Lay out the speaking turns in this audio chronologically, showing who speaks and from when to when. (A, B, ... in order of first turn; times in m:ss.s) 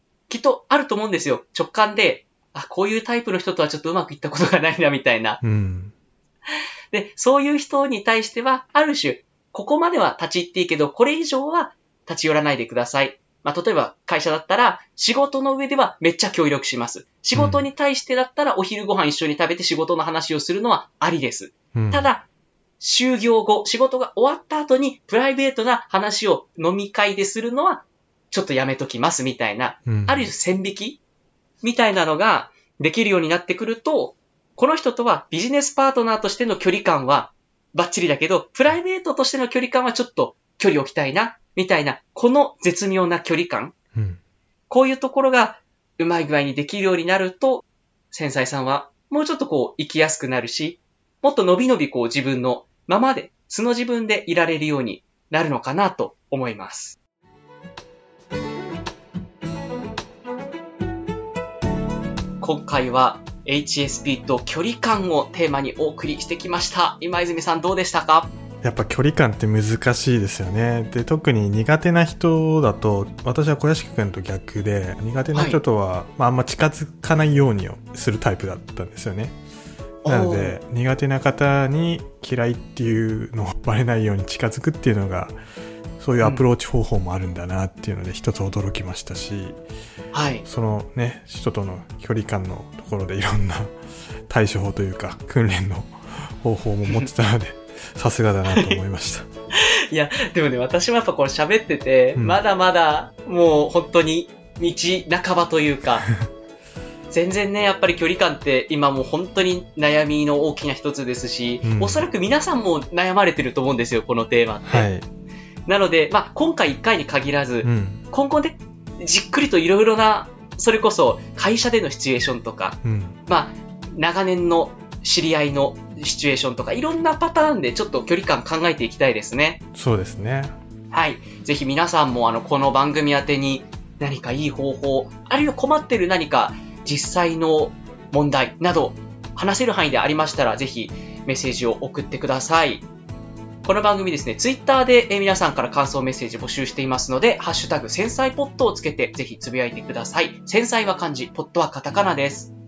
0:00.3-0:05.4 A
0:05.4-0:05.9 B
0:06.9-0:22.2 A
0:17.4-0:17.7 B
0:21.8-0:22.1 B
0:22.8-0:31.0 A
0:29.9-0:30.3 B
0:31.6-0:43.8 A
0:44.0-0:44.2 B
0:44.7-0:57.0 A
1:02.4-1:08.3 A
1:08.6-1:19.4 B
1:15.3-1:15.6 A
1:20.0-1:20.6 A
1:20.1-1:25.3 B
1:26.0-1:29.6 B
1:26.2-1:26.5 A
1:30.1-1:30.5 A
1:30.4-1:33.7 B
1:34.3-1:39.3 B
1:38.5-1:38.8 A
1:39.9-1:46.1 A
1:47.1-1:54.9 A
1:51.6-1:52.1 B
1:54.6-1:55.1 B
1:55.7-2:09.6 A
1:57.6-1:58.0 B
2:02.8-2:03.2 B
2:09.8-2:10.6 B
2:10.9-2:22.8 A
2:23.6-2:32.5 A